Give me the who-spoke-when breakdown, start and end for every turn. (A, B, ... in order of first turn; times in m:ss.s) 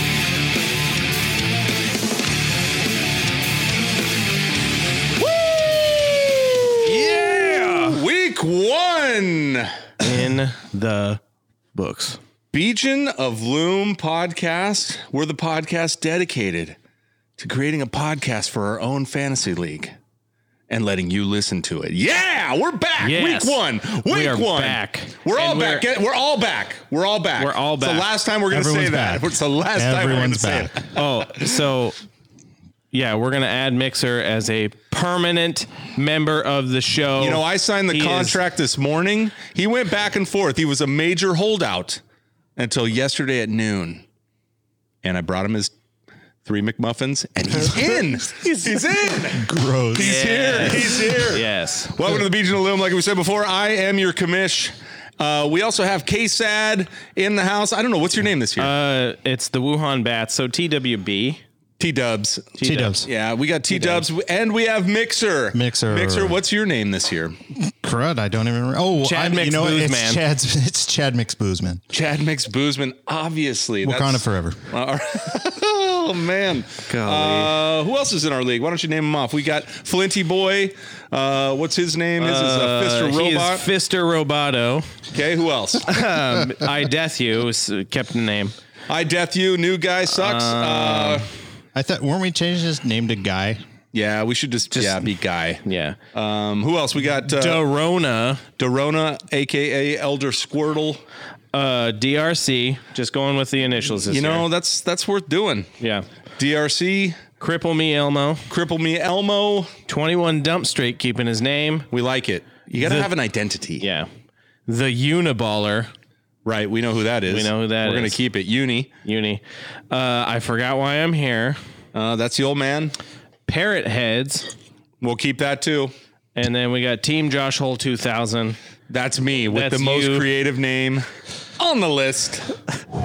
0:05.2-0:09.7 A
0:06.8-0:08.0 B
0:10.0-0:11.2 B
0:11.7-0:12.2 B
0:12.5-0:16.8 A
0:17.4-0:19.9 A
0:20.7-0:31.3 A
0:23.0-0:25.8 B
0:27.4-0:28.0 B
0:28.5-0:30.8 C
0:30.9-0:32.0 B
0:32.9-0:38.4 B
0:37.2-0:42.0 A
0:42.6-0:44.0 A
0:45.0-0:45.7 A
0:46.4-0:58.7 A
0:49.3-0:51.0 C
0:50.0-0:52.0 B
0:58.6-1:01.4 B
1:01.8-1:07.4 A
1:02.6-1:03.0 B
1:02.6-1:03.1 C
1:03.7-1:04.0 B
1:05.5-1:06.4 C
1:07.5-1:11.8 C
1:09.0-1:10.2 B
1:11.9-1:23.7 A
1:13.8-1:14.7 C
1:16.9-1:17.6 B
1:22.2-1:25.0 B
1:25.1-1:26.1 A
1:25.8-1:28.5 B
1:28.9-1:31.3 A
1:30.2-1:31.2 B
1:31.7-1:33.6 C
1:33.9-1:37.6 A
1:34.7-1:35.1 B
1:35.6-1:36.0 B
1:37.2-1:38.4 B
1:38.6-1:41.0 A
1:41.5-1:44.4 B
1:44.1-1:45.7 A
1:45.8-1:46.1 B
1:46.4-1:47.2 A
1:47.4-1:48.5 B
1:48.5-1:49.7 A
1:49.9-1:51.9 B
1:51.9-1:53.8 A
1:52.8-1:53.1 B
1:53.8-1:54.1 B
1:54.7-1:55.9 B
1:56.4-1:58.9 A
1:57.3-1:58.2 B
1:59.0-2:01.6 B
2:01.9-2:03.0 A
2:03.5-2:04.5 B
2:05.0-2:05.9 A
2:06.4-2:08.6 B
2:08.9-2:12.6 A
2:09.5-2:10.2 B